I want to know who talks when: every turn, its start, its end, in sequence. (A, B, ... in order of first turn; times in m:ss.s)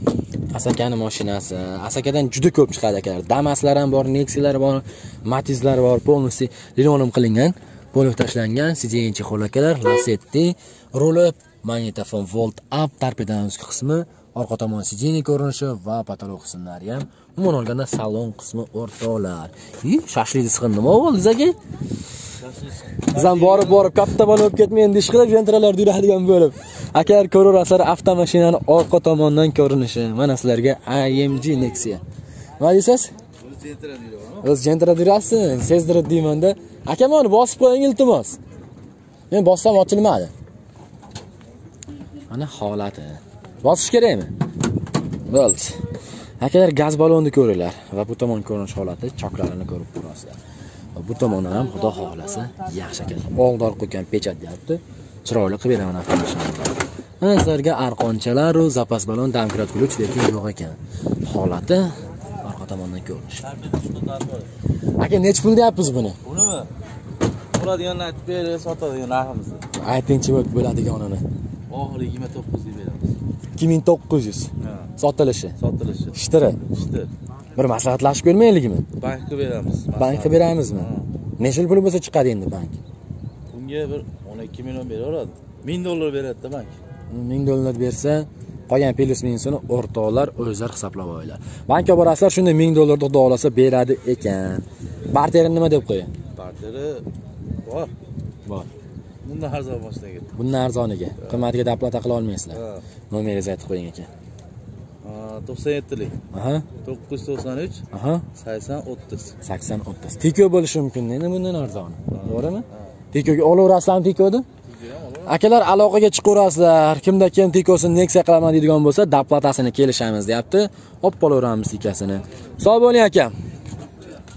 0:00.5-0:21.6 A
0:22.4-0:23.9 B
0:23.1-0:32.0 A
0:32.6-0:33.1 A
0:33.4-0:34.5 B
0:34.4-0:38.4 A
0:39.3-0:40.3 A
0:42.3-0:44.3 A
0:45.3-0:45.8 A
0:46.4-0:50.4 A
0:51.0-1:03.5 A
1:03.4-1:04.5 B
1:05.0-1:06.2 A
1:06.2-1:06.7 B
1:07.6-1:09.6 B
1:09.8-1:11.2 A
1:11.7-1:13.2 B
1:13.6-1:15.6 A
1:14.6-1:14.9 B
1:15.6-1:17.1 B
1:16.1-1:16.6 A
1:17.6-1:18.9 A
1:19.0-1:21.1 B
1:20.0-1:20.9 A
1:21.4-1:22.8 A
1:23.5-1:26.8 B
1:27.1-1:36.1 A
1:36.4-1:37.1 B
1:37.6-1:37.9 B
1:38.5-1:38.7 A
1:39.2-1:40.3 B
1:40.4-1:44.1 A
1:41.2-1:41.4 B
1:42.5-1:42.8 B
1:45.0-1:46.2 B
1:46.3-1:46.7 A
1:46.8-1:47.8 B
1:47.9-1:48.2 A
1:48.4-1:49.3 B
1:49.4-1:54.4 A
1:52.1-1:52.8 B
1:54.7-1:55.4 B
1:55.3-2:03.3 A